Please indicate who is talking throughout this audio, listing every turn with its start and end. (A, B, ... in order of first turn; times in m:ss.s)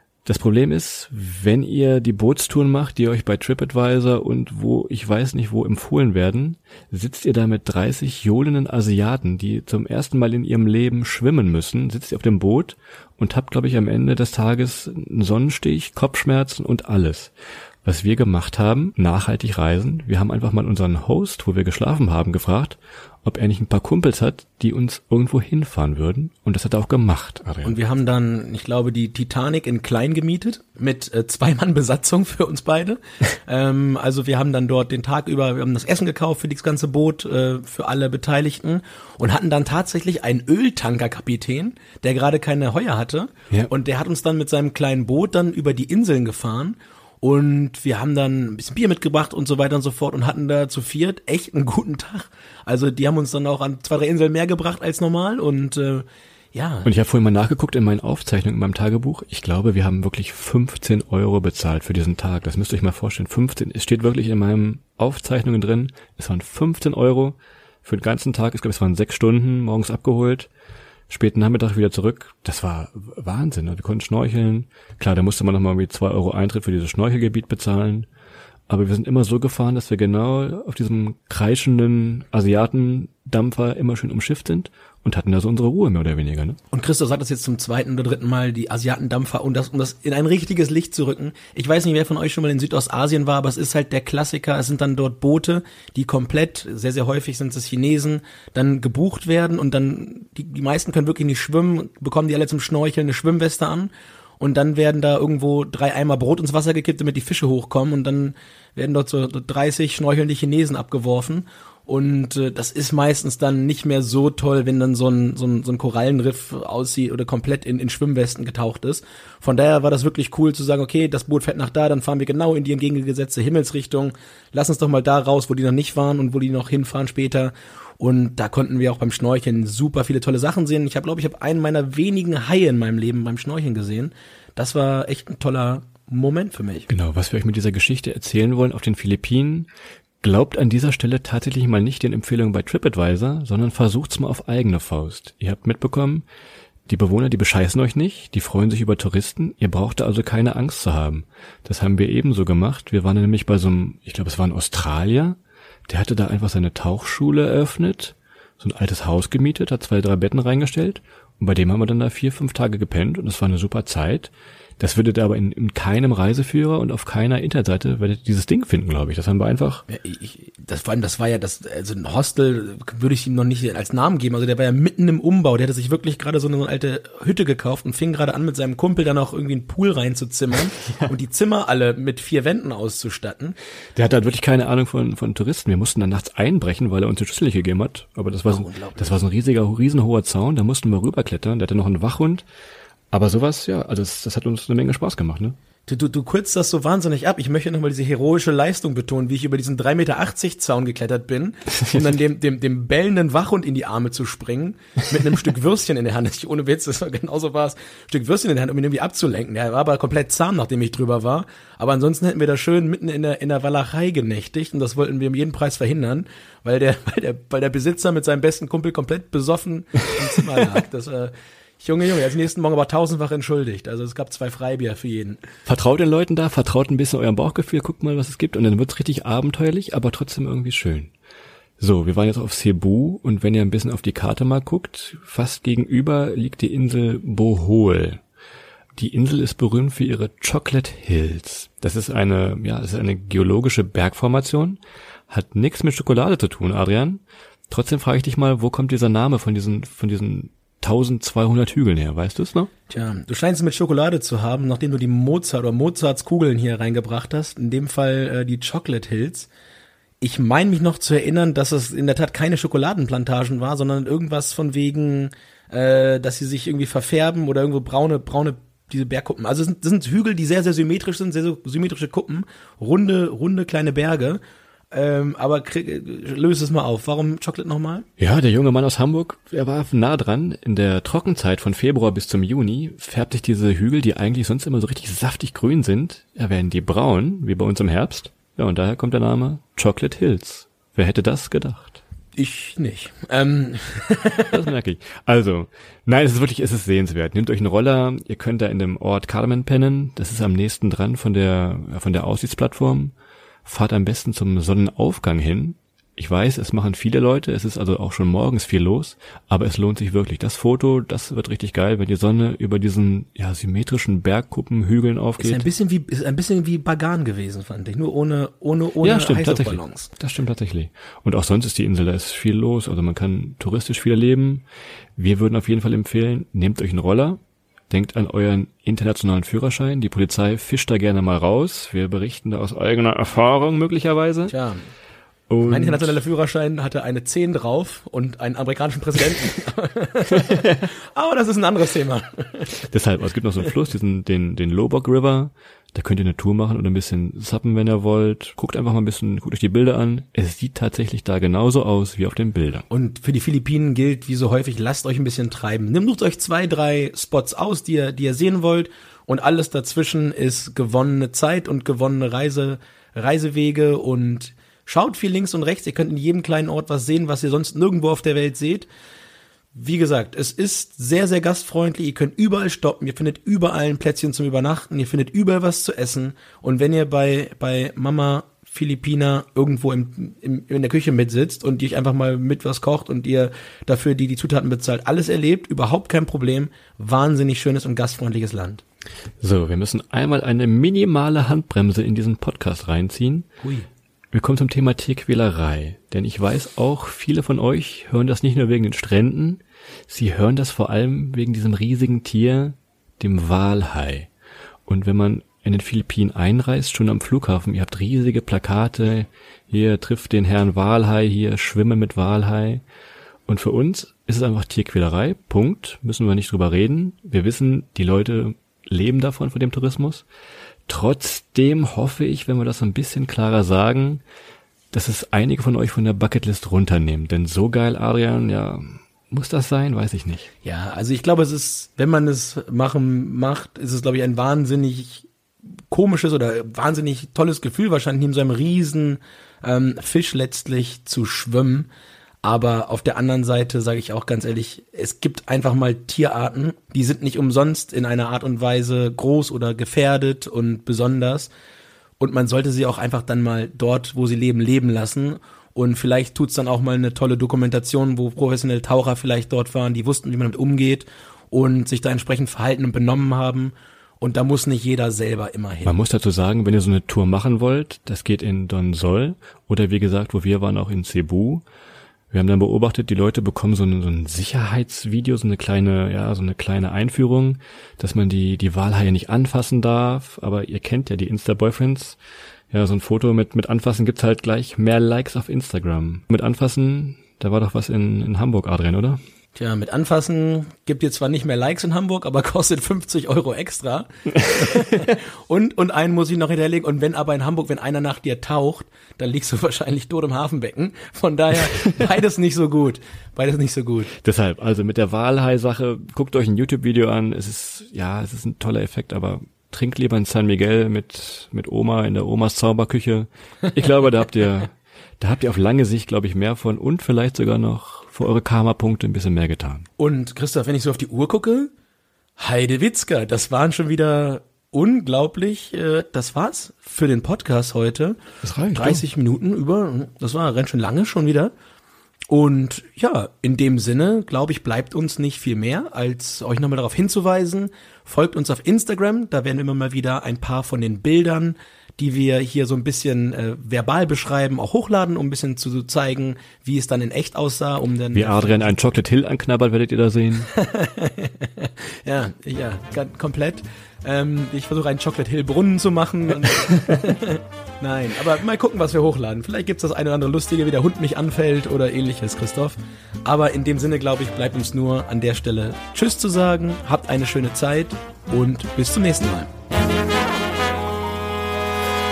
0:00.2-0:17.3 A
0:17.8-0:27.8 A
0:27.6-0:56.9 B
0:56.8-1:10.5 A
1:11.1-1:18.1 A
1:18.7-1:26.6 A
1:26.7-2:16.9 B
2:16.9-2:19.7 A
2:20.2-2:26.2 A
2:26.9-2:49.8 A
2:49.9-3:03.6 B
3:04.0-3:12.4 A
3:08.5-3:09.2 B
3:13.1-3:15.6 A
3:15.9-3:45.4 B
3:45.7-3:51.1 A
3:51.8-3:58.2 A
3:59.0-4:12.7 A
4:12.9-4:19.5 B
4:20.2-4:34.4 B
4:34.9-4:38.1 B
4:38.2-4:52.0 A
4:52.4-4:54.5 B
4:54.5-5:03.1 A
5:03.6-5:15.6 A
5:15.4-5:20.1 B
5:19.0-5:24.6 A
5:25.2-5:34.6 A
5:34.5-5:34.8 B
5:35.5-5:36.2 A
5:35.6-5:42.8 B
5:40.4-5:40.8 A
5:42.8-5:52.8 A
5:52.9-6:08.9 B
6:09.8-6:28.8 B
6:29.4-6:33.5 A
6:33.6-6:33.9 B
6:34.3-6:44.3 A
6:44.9-6:52.8 A
6:53.5-7:00.2 A
7:00.9-7:04.2 A
7:04.9-7:10.5 A
7:10.6-7:15.3 B
7:15.9-7:21.9 B
7:22.4-7:31.5 B
7:32.2-7:46.0 B
7:45.8-7:51.6 A
7:52.3-8:02.2 A
8:02.7-8:09.2 A
8:09.6-8:24.1 B
8:14.4-8:15.1 A
8:21.6-8:22.0 A
8:24.2-8:39.9 A
8:40.0-8:41.7 B
8:42.4-8:48.2 B
8:48.4-8:49.0 A
8:48.7-8:51.5 B
8:52.3-9:08.7 B
9:08.1-9:10.5 A
9:10.5-9:29.5 B